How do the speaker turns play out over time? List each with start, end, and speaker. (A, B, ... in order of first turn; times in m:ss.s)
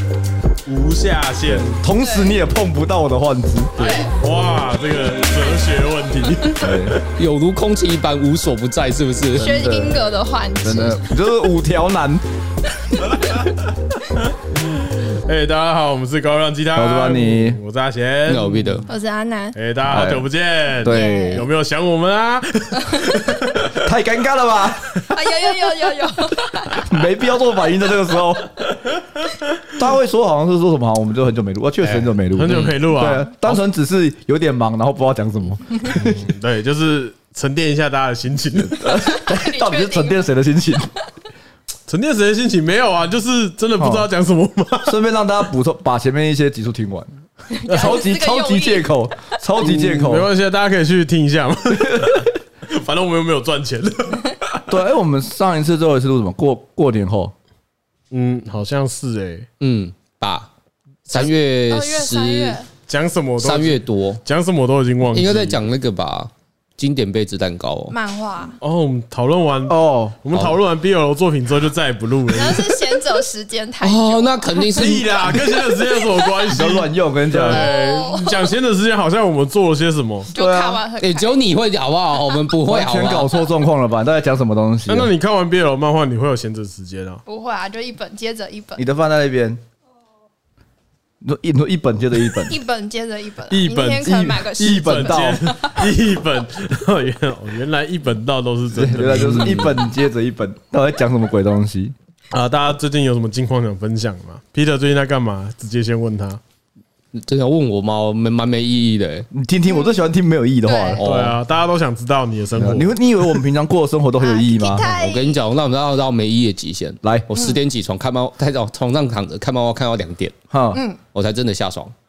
0:00.6-0:01.8 A
0:01.5-0:03.9 B
0:01.9-0:02.4 C
0:03.8-0:07.0 A
0:03.8-0:04.1 C
0:06.5-0:07.0 B
0:07.1-0:09.7 D
0:09.3-0:11.2 C
0:09.4-0:10.0 B
0:10.6-0:12.2 B
0:15.0-0:18.8 A
0:16.8-0:17.6 B
0:18.3-0:18.8 D
0:18.9-0:19.6 C
0:19.5-0:23.8 A
0:19.8-0:20.3 B
0:20.8-0:21.4 B
0:20.8-0:21.5 C
0:23.8-0:24.8 B
0:25.1-0:27.0 C
0:26.8-0:28.8 B
0:29.8-0:36.2 B
0:31.8-0:33.6 A
0:35.9-0:39.1 A
0:38.6-0:40.9 B
0:39.0-0:40.2 C
0:41.9-0:45.0 A
0:43.8-0:44.1 B
0:44.8-0:47.1 B
0:47.5-0:49.4 C
0:47.7-0:50.3 B
0:49.6-0:54.4 A
0:51.7-0:52.2 B
0:54.7-0:57.3 B
0:58.1-0:59.5 A
0:59.6-1:00.5 D
1:01.1-1:02.6 D
1:01.2-1:02.7 C
1:02.9-1:05.6 A
1:03.4-1:04.2 D
1:05.1-1:07.9 D
1:07.9-1:08.6 C
1:08.6-1:12.7 A
1:09.7-1:10.2 B
1:12.3-1:14.7 C
1:13.8-1:15.1 D
1:14.7-1:20.3 A
1:16.5-1:17.7 B
1:17.5-1:18.5 C
1:20.3-1:20.8 B
1:20.3-1:21.4 C
1:21.0-1:23.4 D
1:22.7-1:25.1 B
1:24.9-1:27.2 A
1:27.2-1:28.9 C
1:28.8-1:29.6 B
1:31.2-1:32.6 B
1:32.4-1:35.9 C
1:33.5-1:39.8 A
1:34.0-1:35.4 B
1:38.7-1:41.9 B
1:42.3-1:46.4 A
1:47.1-1:49.3 D
1:49.3-1:51.1 B
1:50.6-1:51.0 C
1:51.0-1:51.4 D
1:51.0-1:53.0 A
1:52.6-1:54.9 B
1:54.2-1:55.4 C
1:54.8-2:00.4 D
1:57.0-1:57.3 B
2:00.5-2:00.8 B
2:00.7-2:01.0 C
2:01.1-2:01.9 D